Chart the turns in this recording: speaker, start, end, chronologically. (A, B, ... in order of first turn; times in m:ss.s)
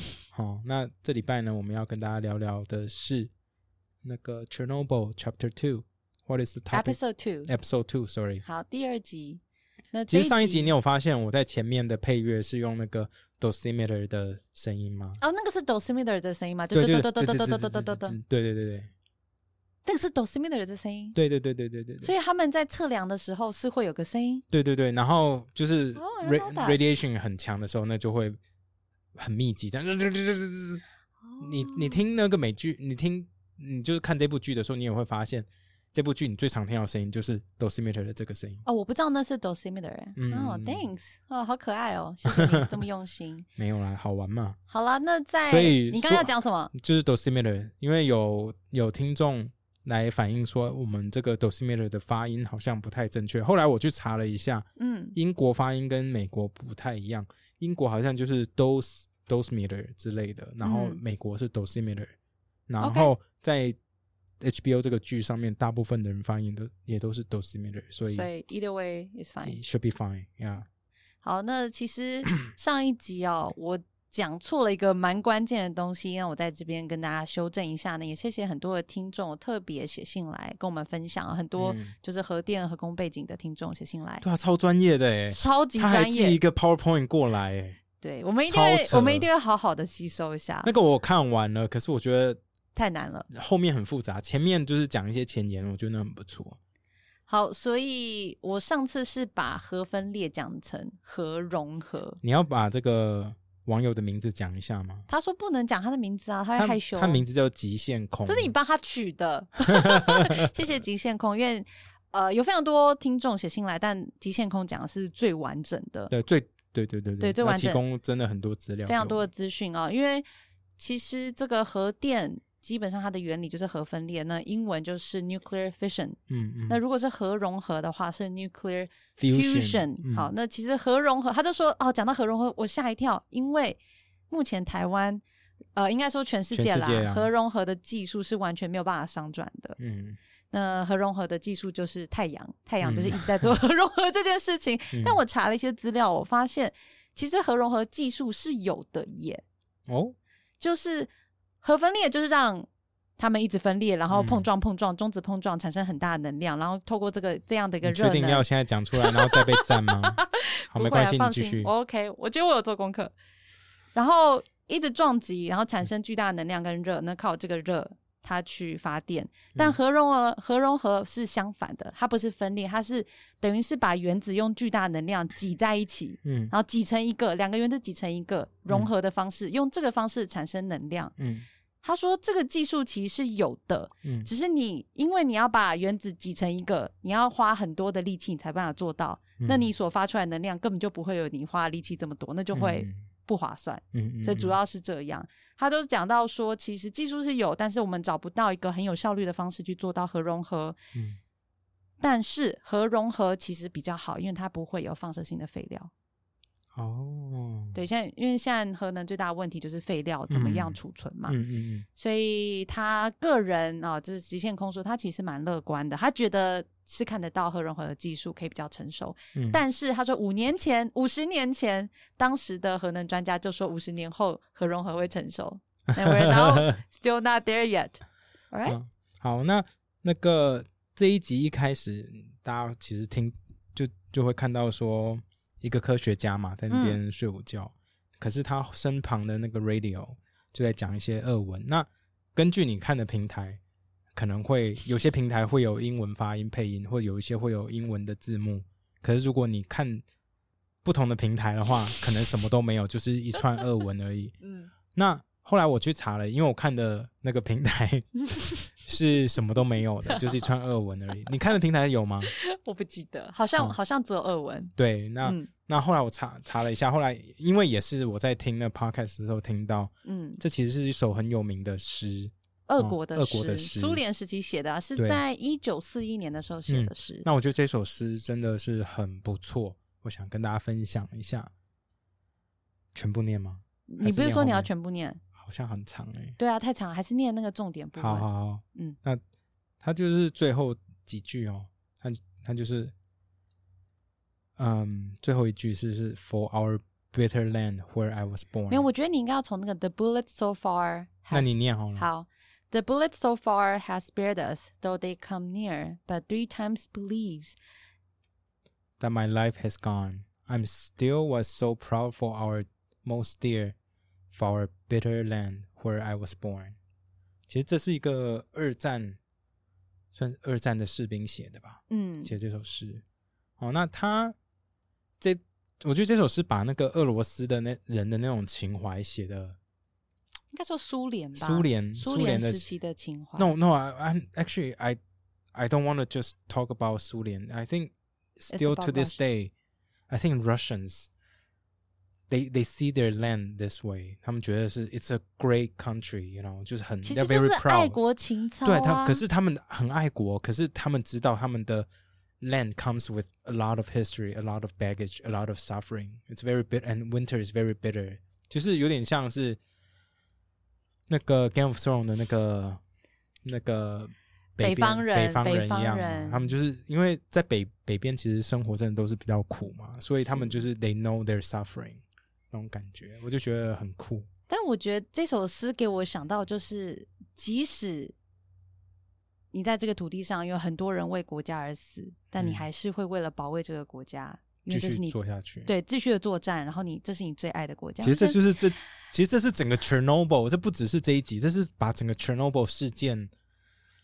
0:00.3-0:03.3 A
0:04.0-0:08.4 A
0:06.7-0:07.5 B
0:08.4-0:09.4 B
0:09.9-0:10.7 B
0:10.1-0:15.2 A
0:15.2-0:18.2 B
0:16.7-0:18.9 A
0:19.8-0:21.2 B
0:21.1-0:22.1 A
0:22.0-0:24.4 B
0:24.5-0:28.4 A
0:26.0-0:26.8 B
0:29.2-0:30.8 A
0:31.2-0:32.0 B
0:31.4-0:38.6 A
0:38.6-0:43.4 B
0:40.2-0:40.9 A
0:42.2-0:42.7 A
0:43.6-0:44.6 A
0:44.7-0:46.7 B
0:45.4-1:02.1 A
0:54.8-0:55.1 B
1:00.6-1:01.0 B
1:02.7-1:03.8 A
1:02.8-1:03.1 B
1:04.4-1:08.3 A
1:08.1-1:09.6 B
1:09.4-1:10.7 A
1:11.2-1:24.2 B
1:21.6-1:21.9 A
1:24.2-1:27.8 A
1:25.3-1:26.4 B
1:28.0-1:30.7 B
1:28.4-1:29.3 A
1:30.6-1:32.4 A
1:32.7-1:33.3 B
1:33.3-1:36.6 A
1:37.3-1:42.2 B
1:42.2-1:45.0 A
1:45.1-1:47.2 B
1:46.6-1:48.5 A
1:48.2-1:56.1 B
1:49.7-1:50.8 A
1:56.1-1:59.2 A
1:57.2-1:57.8 B
1:58.8-2:00.2 B
2:00.8-2:15.2 B
2:06.3-2:06.8 A
2:09.2-2:10.3 A
2:15.7-2:19.8 B
2:16.5-2:17.3 A
2:19.8-2:20.2 A
2:20.5-2:29.4 B
2:22.8-2:23.5 A
2:24.9-2:25.2 A
2:29.9-2:30.2 A
2:30.6-2:31.1 B
2:31.6-2:43.1 B
2:34.1-2:34.4 A
2:37.8-2:41.7 A
2:43.9-3:01.1 B
2:56.2-2:56.5 A
3:01.2-3:01.5 A
3:01.8-3:20.8 B
3:04.0-3:04.3 A
3:09.4-3:09.7 A
3:12.5-3:13.0 A
3:13.9-3:14.6 A
3:22.0-3:25.9 B
3:26.7-3:27.8 A
3:27.7-3:31.4 B
3:30.3-3:31.8 A
3:32.0-3:48.8 B
3:39.3-3:39.6 A
3:45.9-3:46.8 A
3:48.6-4:03.6 A
3:56.7-3:57.0 B
4:04.1-4:10.0 A
4:10.8-4:14.4 A
4:14.4-4:14.7 B
4:14.9-4:22.3 A
4:20.1-4:20.5 B
4:22.2-4:25.5 B
4:24.8-4:34.0 A
4:30.0-4:30.4 B
4:32.7-4:37.2 B
4:35.0-4:35.2 A
4:36.7-4:41.5 A
4:42.9-4:44.7 A
4:43.9-4:45.2 B
4:45.4-4:46.4 A
4:46.4-4:49.0 B
4:48.0-4:49.2 A
4:49.8-4:52.9 A
4:54.6-4:58.8 A
4:58.7-5:07.6 B
5:01.3-5:02.0 A
5:09.0-5:13.7 A
5:14.3-5:16.8 A
5:17.5-5:19.2 A
5:20.1-5:23.0 A
5:21.9-5:22.3 B
5:23.6-5:24.4 A
5:25.2-5:29.6 A
5:30.5-5:33.5 B
5:31.4-5:32.7 A
5:33.4-5:35.0 A
5:35.5-5:39.5 A
5:38.5-5:39.2 B
5:40.1-5:41.1 A
5:42.3-5:48.0 A
5:47.0-5:49.2 B
5:48.6-5:51.9 A
5:52.4-5:59.6 A
6:01.1-6:02.8 A
6:03.4-6:14.3 A
6:04.6-6:06.5 B
6:10.2-6:10.6 B
6:14.5-6:18.1 B
6:19.5-6:28.4 B
6:22.4-6:22.6 A
6:24.7-6:25.7 A
6:28.0-6:33.3 A